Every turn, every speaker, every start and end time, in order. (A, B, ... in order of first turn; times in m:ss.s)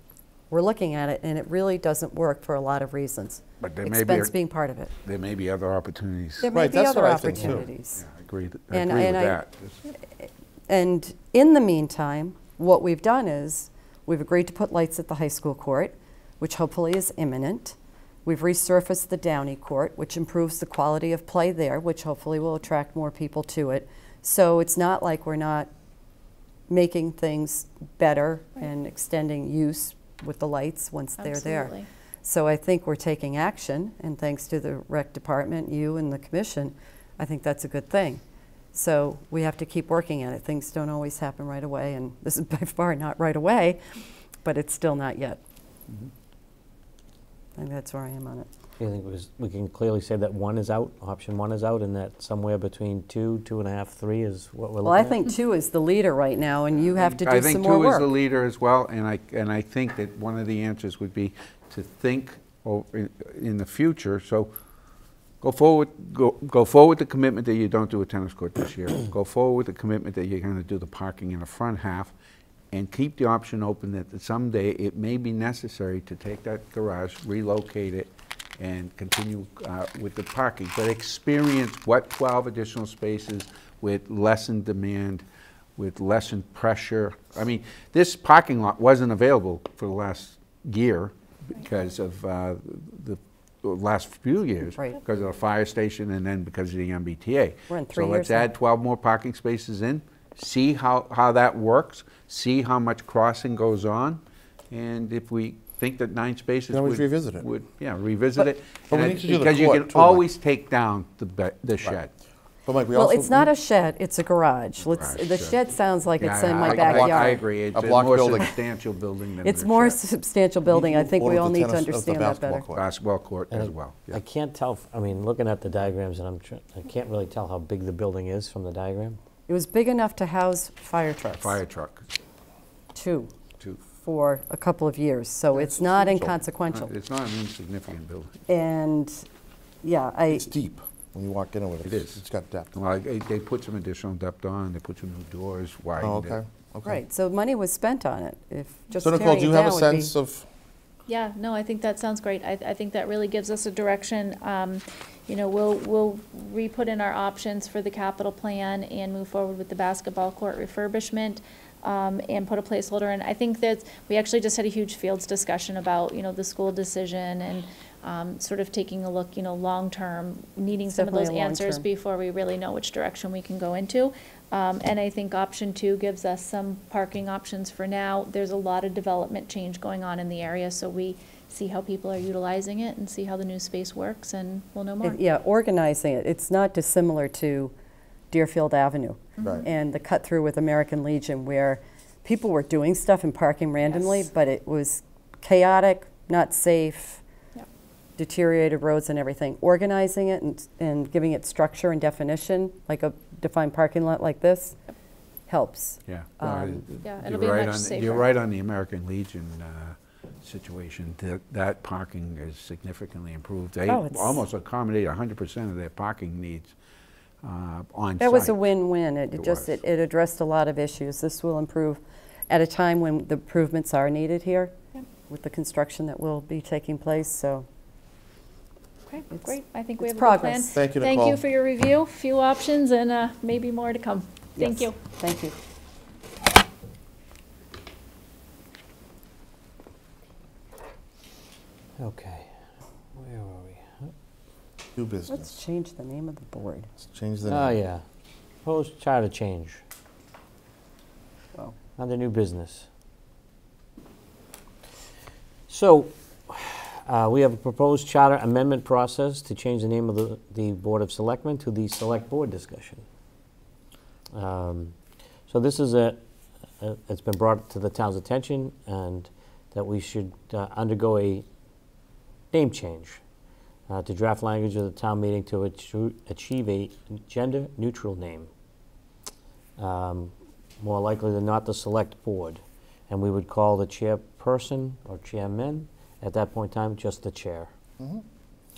0:00.5-0:04.9 A
0:03.6-0:04.3 B
0:05.0-0:06.5 B
0:06.4-0:08.0 A
0:06.5-0:07.7 C
0:08.0-0:09.8 B
0:08.7-0:09.4 A
0:10.1-0:25.7 A
0:26.7-0:38.2 A
0:31.2-0:31.9 D
0:38.7-0:43.8 A
0:44.4-0:45.4 A
0:47.6-0:48.5 A
0:48.8-0:55.2 E
0:54.8-0:58.1 A
0:56.8-1:04.5 B
1:05.4-1:12.1 B
1:12.7-1:25.2 B
1:25.8-1:52.1 B
1:37.7-1:38.5 A
1:46.7-1:47.5 C
1:48.9-1:50.2 C
1:52.6-1:53.5 C
1:52.9-1:57.4 A
1:54.9-1:55.6 B
1:56.2-2:00.0 B
1:56.6-1:58.5 C
1:59.4-2:02.7 A
2:00.7-2:02.9 C
2:02.7-2:04.2 B
2:03.5-2:09.2 E
2:09.5-2:11.6 A
2:11.4-2:12.0 B
2:12.9-2:13.3 A
2:14.0-2:16.9 A
2:15.5-2:16.4 C
2:16.7-2:18.4 B
2:18.5-2:19.2 A
2:19.8-2:20.5 A
2:20.3-2:22.7 C
2:21.8-2:22.2 B
2:22.7-2:26.4 B
2:26.0-2:27.0 C
2:26.8-2:30.1 A
2:29.0-2:30.5 C
2:31.1-3:05.2 D
2:50.9-2:51.8 A
3:05.0-3:07.7 A
3:08.3-3:17.2 A
3:09.4-3:09.7 D
3:09.4-3:09.6 C
3:18.2-3:24.8 A
3:25.5-3:26.8 A
3:26.1-3:36.8 B
3:27.0-3:28.3 D
3:33.9-3:34.4 A
3:37.4-3:38.6 B
3:38.2-3:44.7 A
3:39.4-3:39.7 B
3:45.3-3:47.7 A
3:49.1-3:54.9 D
3:50.0-3:50.6 A
3:50.6-3:51.4 C
3:54.6-3:55.6 A
4:02.0-4:02.5 E
4:03.1-4:04.1 E
4:05.0-4:05.6 C
4:05.3-4:06.9 A
4:07.0-4:07.8 C
4:07.4-4:08.0 E
4:08.6-4:09.8 E
4:12.0-4:12.8 E
4:15.7-4:23.0 E
4:24.3-4:25.0 E
4:25.5-4:26.2 E
4:26.8-4:31.4 E
4:32.5-4:33.2 E
4:33.9-4:38.5 E
4:39.8-4:47.7 E